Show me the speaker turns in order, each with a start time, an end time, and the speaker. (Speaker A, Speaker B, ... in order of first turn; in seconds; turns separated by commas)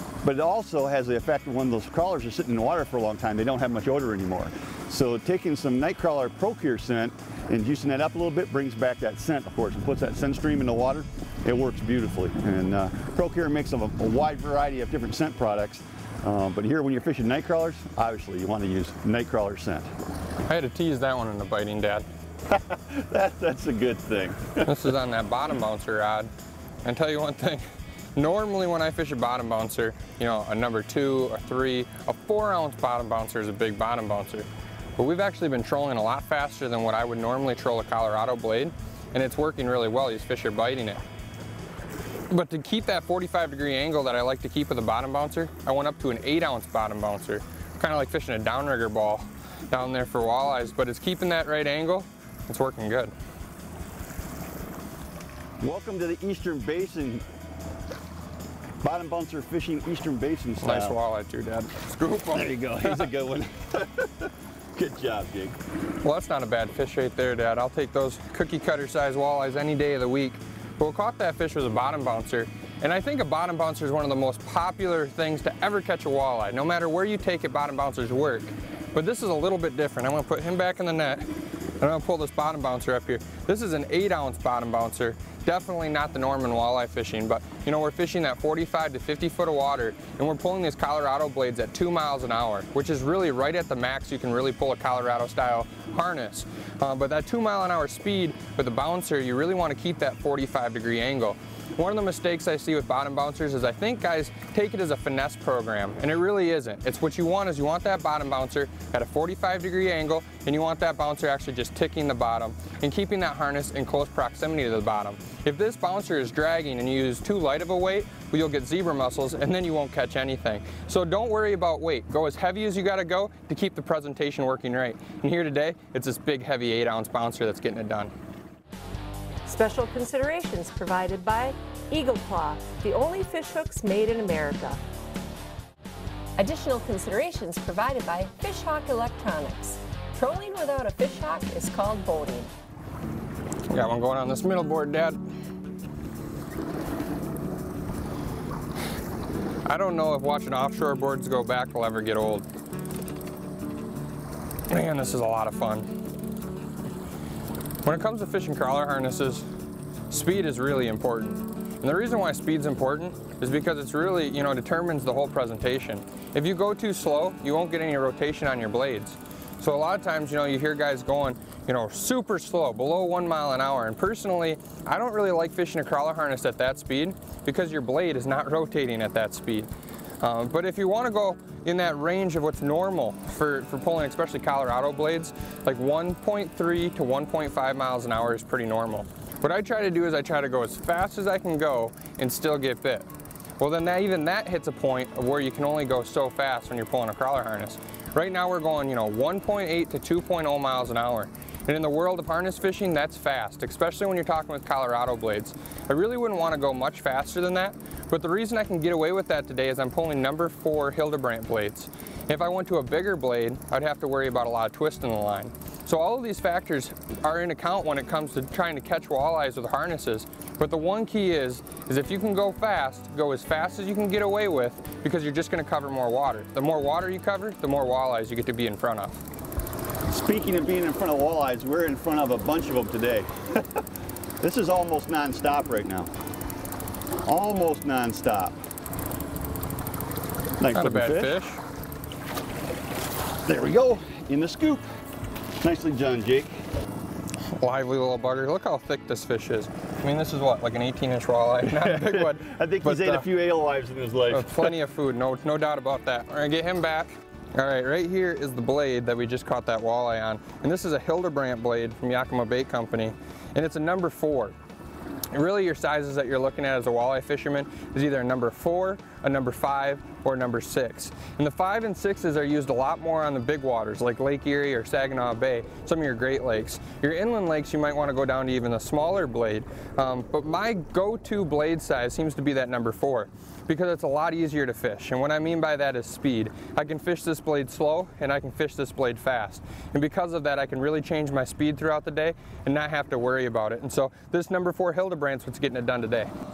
Speaker A: 0.2-19.9, Speaker B: 20.5-22.1, Speaker A: 22.5-24.9, Speaker B: 24.6-26.3, Speaker B: 26.8-41.0, Speaker B: 42.3-53.1, Speaker A: 55.6-57.2, Speaker A: 58.8-61.0, Speaker B: 60.6-63.1, Speaker A: 62.3-65.6, Speaker B: 66.0-81.3, Speaker B: 81.8-128.1, Speaker C: 129.5-134.8, Speaker C: 136.4-142.5, Speaker B: 143.7-145.2, Speaker B: 149.7-152.5, Speaker B: 154.7-155.9, Speaker B: 157.8-159.5, Speaker B: 160.1-179.7, Speaker B: 180.2-193.1, Speaker B: 193.6-229.2, Speaker A: 230.1-233.8, Speaker A: 234.4-236.1, Speaker A: 237.2-238.6, Speaker A: 240.6-241.3, Speaker B: 240.7-241.6, Speaker A: 243.5-244.8, Speaker A: 245.6-246.6, Speaker B: 247.6-253.3, Speaker A: 251.6-254.8, Speaker B: 254.3-264.6, Speaker B: 265.3-296.3